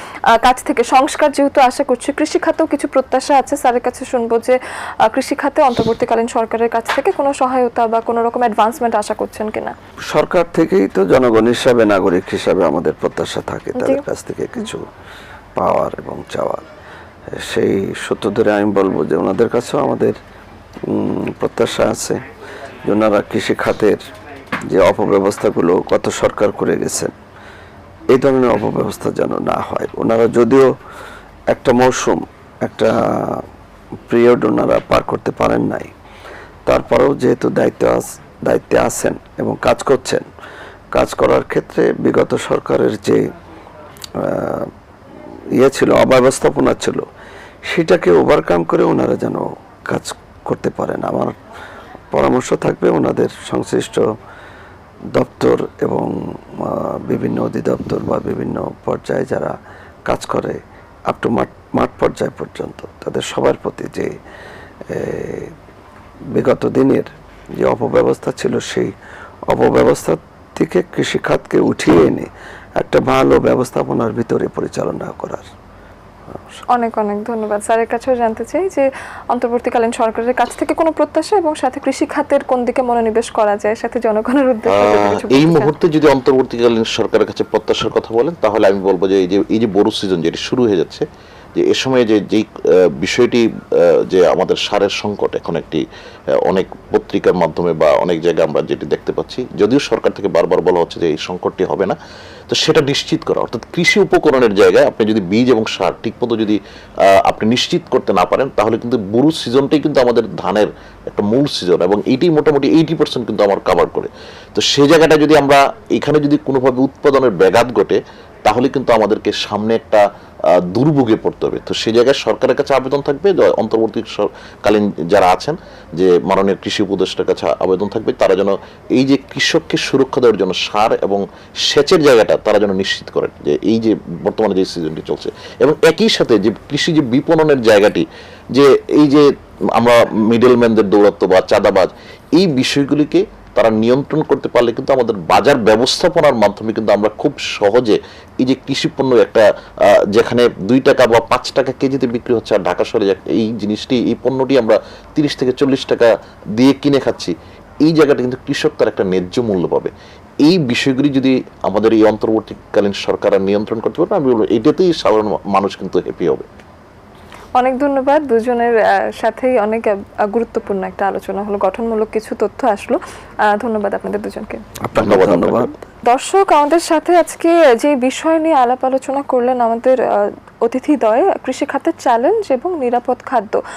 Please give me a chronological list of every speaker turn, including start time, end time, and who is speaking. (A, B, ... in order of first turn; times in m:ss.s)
0:00.4-0:09.7 A
0:10.1-0:14.9 B
0:13.8-0:14.0 A
0:15.6-0:16.6 B
0:17.3-0:20.2 B
0:20.8-0:22.2 B
0:22.8-0:24.0 B
0:24.7-0:27.1 B
0:28.1-0:30.7 B
0:31.5-0:33.4 B
0:34.1-0:35.9 B
0:36.6-0:40.3 B
0:40.9-0:43.3 B
0:44.2-0:44.7 B
0:45.6-0:47.1 B
0:47.6-0:51.3 B
0:52.1-0:54.1 B
0:55.1-0:59.6 B
1:00.1-1:04.1 B
1:04.9-1:05.5 B
1:06.3-1:08.9 B
1:09.5-1:15.5 B
1:16.3-1:16.6 B
1:16.7-1:25.7 A
1:24.7-1:31.0 C
1:31.6-1:35.8 C
1:36.4-1:42.0 C
1:42.5-2:46.4 C
2:47.6-2:54.6 A
2:54.8-2:55.7 B
2:55.0-2:55.7 C
2:56.1-3:03.6 A